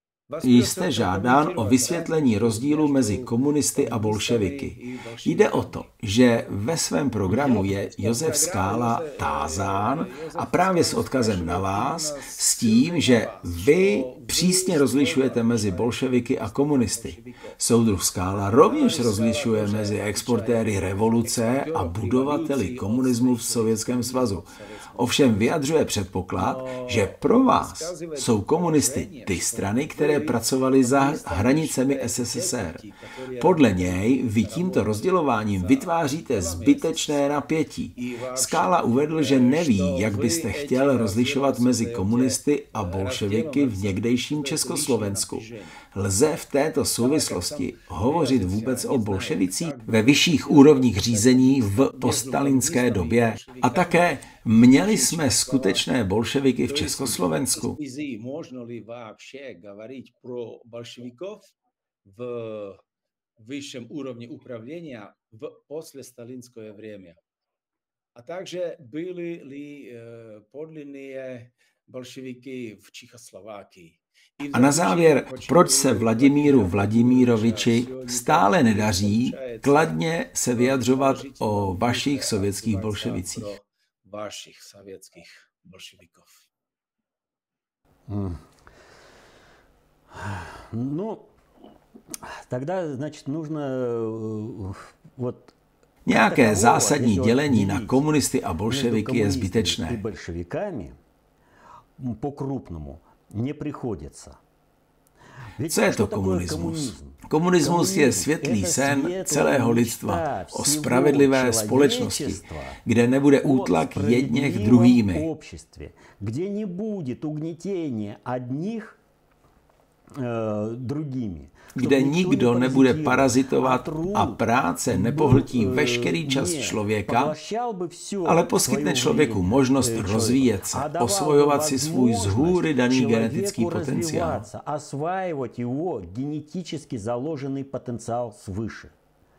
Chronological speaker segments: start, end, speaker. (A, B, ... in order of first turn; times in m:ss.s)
0:00.3-0:05.9 A
0:00.4-0:32.8 B
0:07.3-0:17.6 A
0:18.4-0:25.4 A
0:26.3-0:37.2 A
0:33.4-0:57.8 B
0:38.0-0:45.8 A
0:47.0-0:55.8 A
0:56.6-1:01.5 A
1:02.0-1:02.8 A
1:03.4-1:07.2 A
1:08.1-1:20.0 A
1:14.5-1:23.5 B
1:20.6-1:26.5 A
1:28.1-1:28.4 C
1:30.1-1:31.3 C
1:32.2-1:35.5 C
1:36.0-1:40.0 B
1:36.1-1:38.0 C
1:38.7-1:41.0 C
1:42.0-1:44.4 C
1:45.6-1:52.8 C
1:45.7-1:55.3 B
1:53.4-1:59.0 C
2:00.1-2:18.9 C
2:01.8-2:07.3 B
2:08.2-2:14.5 B